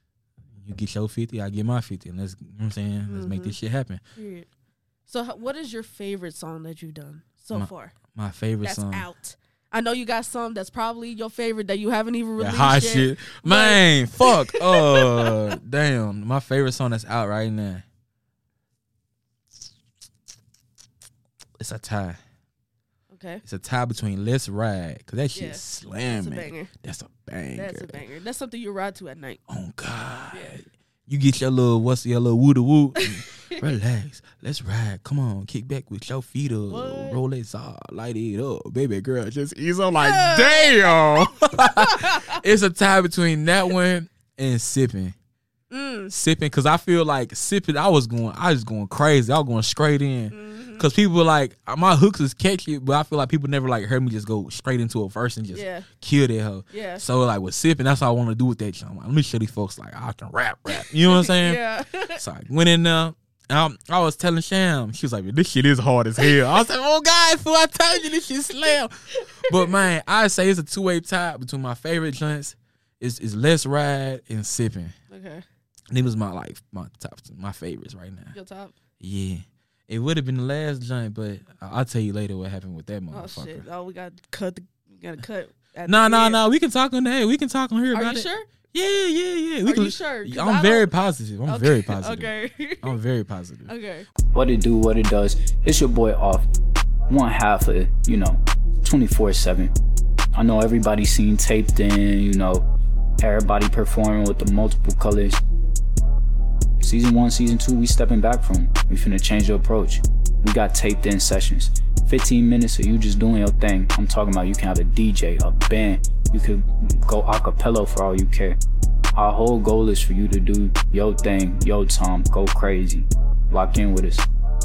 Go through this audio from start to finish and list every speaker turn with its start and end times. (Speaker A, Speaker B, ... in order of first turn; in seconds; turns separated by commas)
Speaker A: 0.6-4.0, Speaker B: 3.1-3.6, Speaker B: 4.2-4.5, Speaker B: 5.1-7.9, Speaker A: 7.5-9.1, Speaker B: 8.6-15.5, Speaker A: 12.4-17.8, Speaker A: 21.6-22.2, Speaker B: 23.1-23.4, Speaker A: 23.4-28.0, Speaker B: 25.3-26.7, Speaker B: 27.6-29.4, Speaker A: 29.5-45.1, Speaker B: 30.3-30.6, Speaker B: 33.0-33.6, Speaker B: 36.7-37.2, Speaker B: 40.0-42.4, Speaker B: 45.7-46.1, Speaker A: 46.1-61.6, Speaker B: 50.3-50.9, Speaker B: 55.5-55.9, Speaker B: 56.7-57.0, Speaker B: 60.7-62.2, Speaker A: 62.1-68.9, Speaker B: 66.2-66.5, Speaker B: 68.6-69.8, Speaker A: 69.4-74.9, Speaker B: 75.1-75.4, Speaker A: 75.9-78.3, Speaker B: 78.3-78.7, Speaker A: 79.0-83.6, Speaker B: 83.1-86.4, Speaker A: 85.8-93.7, Speaker B: 87.9-88.5, Speaker B: 89.6-90.9, Speaker B: 91.5-92.9, Speaker B: 93.7-94.1, Speaker C: 94.3-96.5, Speaker C: 97.1-99.7, Speaker C: 100.3-102.7, Speaker C: 103.2-105.4, Speaker C: 106.8-118.6, Speaker C: 119.1-124.2